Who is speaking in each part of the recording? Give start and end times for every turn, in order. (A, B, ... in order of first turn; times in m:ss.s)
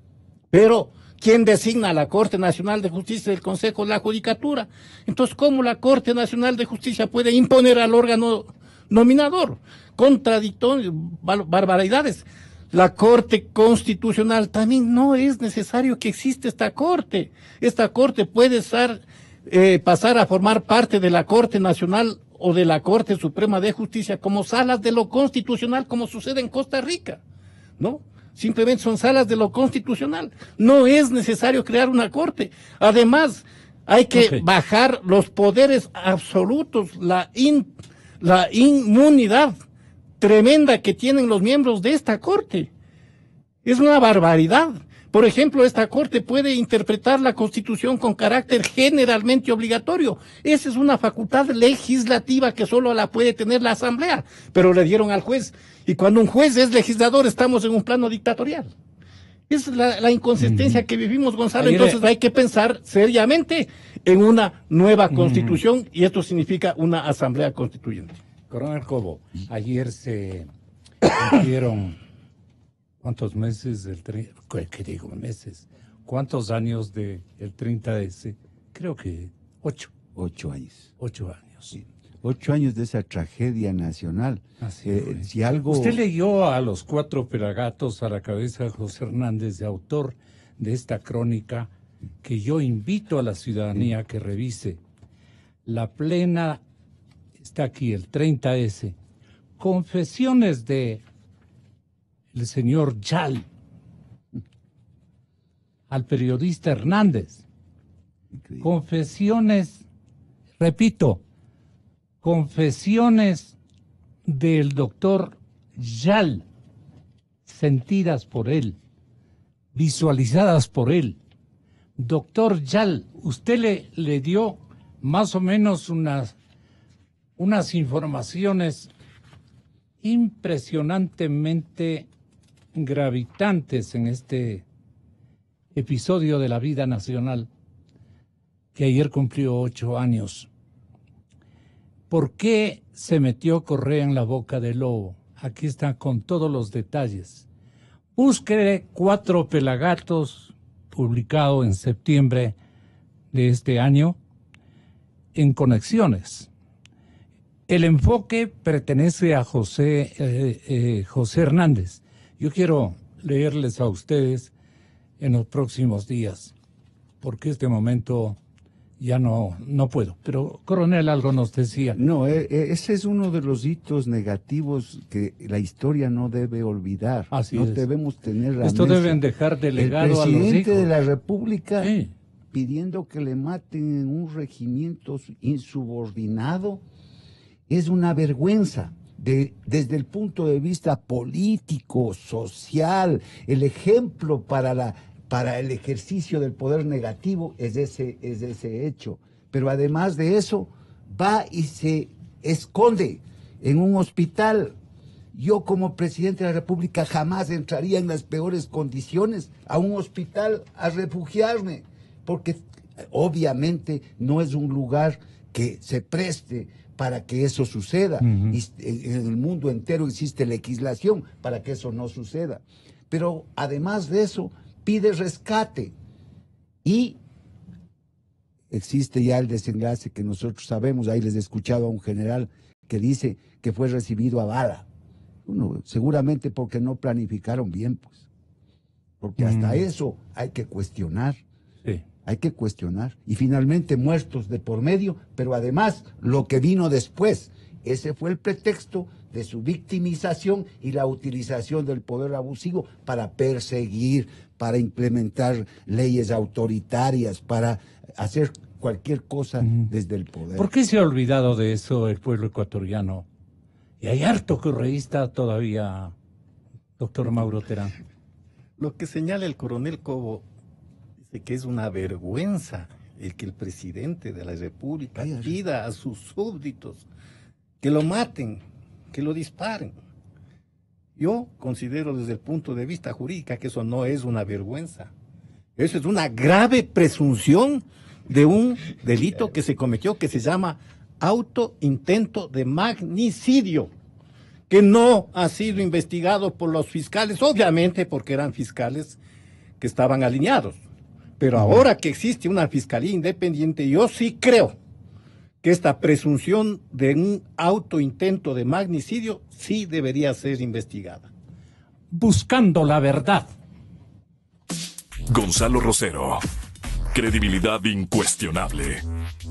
0:00.5-0:27.2 A
0:27.8-0:39.6 A
0:34.1-0:34.4 B
0:40.2-0:42.7 A
0:43.6-0:58.7 A
0:59.5-1:08.2 A
1:00.4-1:00.8 B
1:01.6-1:02.1 B
1:05.1-1:05.6 B
1:08.5-1:10.5 B
1:11.1-1:12.0 B
1:13.0-1:19.9 B
1:20.2-1:20.9 C
1:21.0-1:21.8 B
1:22.2-1:26.0 C
1:24.6-1:31.7 B
1:32.2-1:34.8 B
1:35.7-1:36.6 B
1:37.4-1:39.0 B
1:39.6-1:41.0 B
1:42.3-1:43.4 B
1:45.9-1:47.4 B
1:48.6-1:49.8 B
1:50.6-1:51.2 B
1:52.2-1:53.6 B
1:54.3-1:56.4 B
1:57.5-1:58.8 B
1:59.7-2:01.2 B
2:02.0-2:06.4 B
2:07.4-2:08.9 B
2:10.0-2:12.1 B
2:12.8-2:14.6 B
2:15.7-2:17.5 B
2:18.7-2:20.5 B
2:22.1-2:27.5 B
2:28.2-2:32.6 B
2:33.3-2:34.2 B
2:35.4-2:36.5 B
2:37.7-2:44.5 B
2:45.2-2:46.5 B
2:47.2-2:48.4 B
2:49.0-2:52.0 B
2:52.0-2:59.2 C
2:57.3-2:57.9 B
2:58.6-3:00.9 B
2:59.8-3:01.9 C
3:01.8-3:02.1 B
3:02.5-3:06.8 C
3:07.7-3:24.8 C
3:25.3-3:46.0 C
3:38.2-3:38.6 B
3:46.8-3:47.2 C
3:48.7-3:54.9 C
3:55.4-3:58.2 C
3:59.2-4:01.4 C
3:59.4-3:59.8 B
4:02.2-4:20.7 C
4:20.6-4:23.3 B
4:24.0-4:26.1 B
4:27.0-4:28.0 B
4:28.8-4:30.5 A
4:31.2-4:37.0 A
4:35.2-4:35.5 C
4:37.8-4:40.0 A
4:41.2-4:45.1 A
4:45.8-4:53.9 A
4:54.7-4:59.2 A
4:59.8-5:00.8 A
5:01.4-5:04.8 A
5:01.6-5:01.8 B
5:05.6-5:11.3 A
5:12.1-5:13.5 B
5:15.3-5:16.4 D
5:17.1-5:19.0 D